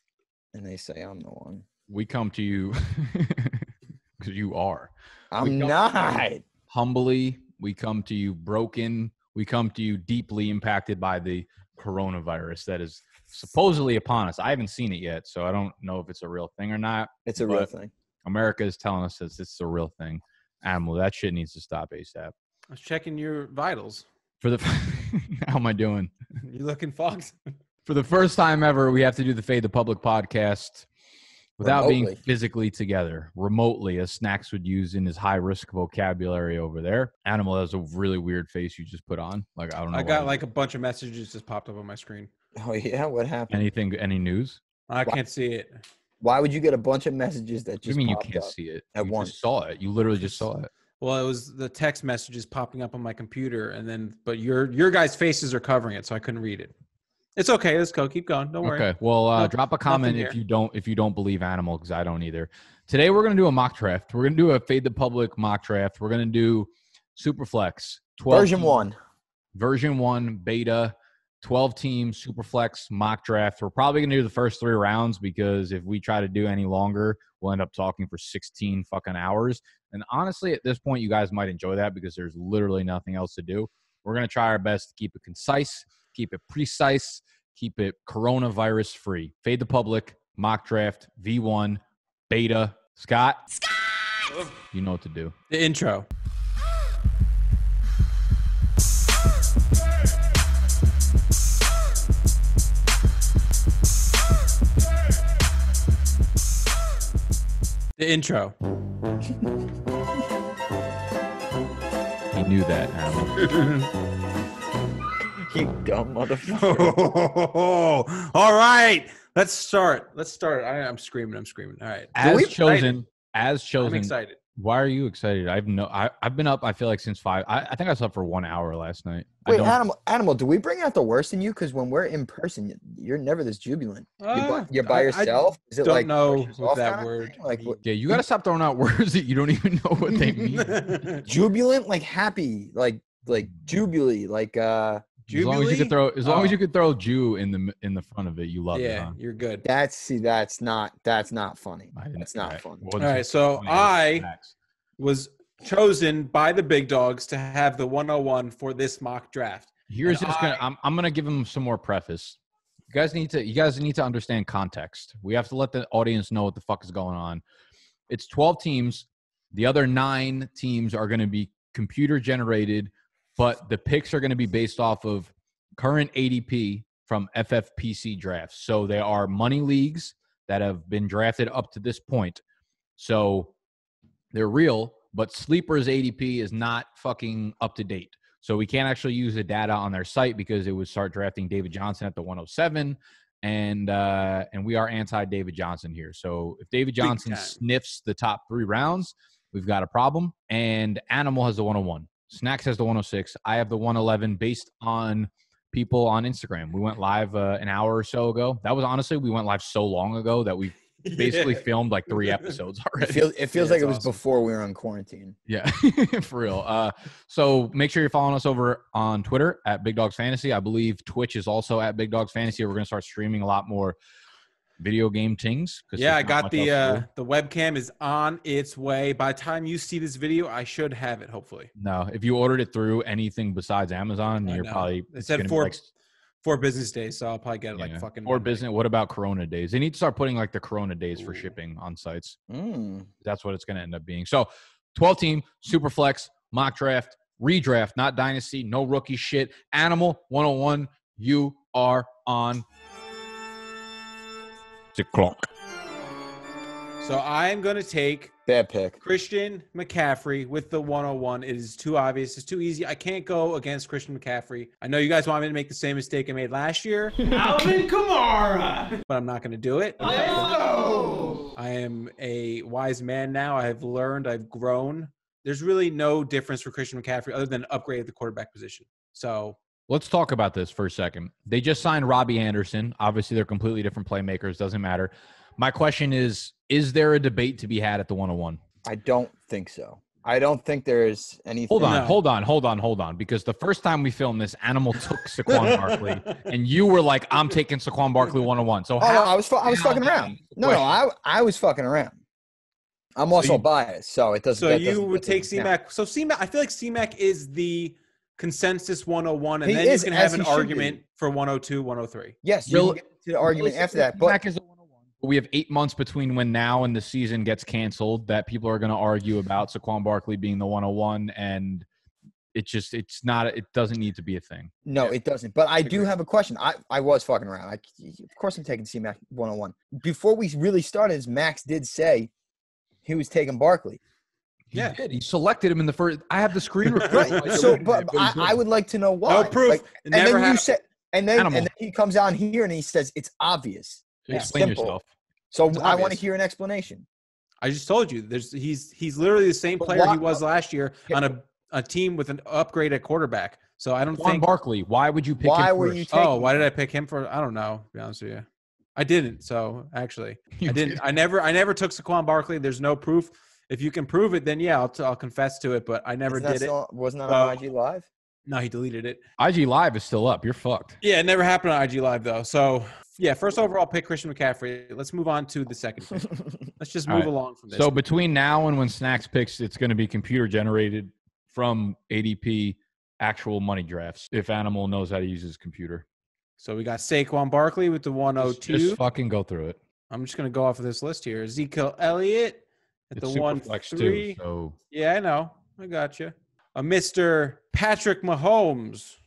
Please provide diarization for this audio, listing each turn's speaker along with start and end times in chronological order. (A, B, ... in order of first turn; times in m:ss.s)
0:00.5-0:01.6 A
0:01.9-0:03.7 B
0:04.2-0:05.8 B
0:05.3-0:06.5 A
0:06.7-0:17.7 B
0:17.3-0:17.9 A
0:18.2-0:22.3 B
0:22.7-0:24.1 C
0:24.4-0:26.1 B
0:26.4-0:27.5 C
0:27.9-0:30.9 B
0:31.6-0:40.4 B
0:31.6-0:32.2 A
0:39.9-0:42.3 C
0:42.6-0:43.6 A
0:43.5-0:44.6 B
0:44.9-0:45.8 C
0:46.2-0:49.3 A
0:47.8-0:50.7 B
0:51.0-0:56.7 C
0:57.4-1:00.4 C
0:58.6-1:08.7 B
1:08.3-1:09.0 A
1:09.6-1:33.5 B
1:34.7-1:35.3 B
1:35.5-1:36.1 C
1:48.0-1:48.6 C
1:52.3-1:53.5 B
1:53.4-1:53.9 C
1:55.4-1:57.0 A
1:56.5-2:02.9 C
2:02.2-2:09.8 B
2:02.2-2:02.5 A
2:03.8-2:04.4 C
2:09.5-2:18.2 A
2:14.2-2:17.8 C
2:17.8-2:20.9 B
2:20.4-2:21.2 C
2:21.3-2:25.1 A
2:25.3-2:29.2 B
2:25.3-2:26.6 C
2:28.7-2:29.7 C
2:29.6-2:32.9 A
2:32.0-2:34.5 B
2:33.0-2:34.3 C
2:35.0-2:40.6 C
2:39.9-2:42.4 B
2:42.9-2:47.4 B
2:48.1-3:02.4 B
3:03.0-3:03.5 B
3:04.3-3:33.3 B
3:17.0-3:17.6 C
3:31.0-3:32.5 C
3:33.0-3:35.4 A
3:33.6-3:34.2 C
3:35.5-3:44.0 B
3:44.8-3:47.0 B
3:46.0-3:51.7 C
3:51.8-3:55.8 B
3:54.4-3:55.8 C
3:56.4-3:58.6 C
3:57.8-4:02.4 B
4:01.2-4:01.5 C
4:02.5-4:03.1 A
4:03.2-4:12.6 B
4:14.9-4:15.5 B
4:17.0-4:18.3 C
4:18.5-4:19.0 A
4:19.0-4:27.2 C
4:27.2-4:29.0 D
4:29.1-4:30.5 C
4:30.0-4:31.5 D
4:31.6-4:39.6 C
4:39.9-4:48.6 B
4:48.8-4:52.0 A
4:51.7-5:01.0 B
4:51.8-4:52.2 C
4:55.5-4:56.5 C
4:59.0-5:02.2 A
5:03.2-5:05.7 A
5:03.3-5:03.6 B
5:04.6-5:12.4 C
5:09.6-5:11.0 A
5:12.4-5:14.4 A
5:12.7-5:14.7 B
5:15.2-5:21.9 B
5:22.6-5:24.7 B
5:24.8-5:32.3 A
5:33.0-5:34.0 A
5:34.7-5:38.6 B
5:34.7-5:35.0 C
5:36.9-5:37.8 C
5:37.1-5:45.0 A
5:39.3-5:40.7 C
5:41.4-5:41.7 B
5:44.2-5:45.0 B
5:44.3-5:44.6 C
5:45.5-5:47.1 A
5:45.8-5:46.2 C
5:47.6-5:54.5 C
5:49.8-5:50.4 A
5:54.2-5:56.1 B
5:55.4-5:56.6 A
5:56.1-6:06.7 C
6:00.6-6:01.0 B
6:06.3-6:08.1 A
6:07.3-6:07.6 C
6:08.5-6:09.2 C
6:09.4-6:11.0 B
6:11.0-6:18.0 C
6:17.1-6:26.0 B
6:26.6-6:29.0 C
6:28.4-6:29.8 B
6:30.1-6:34.4 C
6:33.2-6:34.8 B
6:34.9-6:39.2 C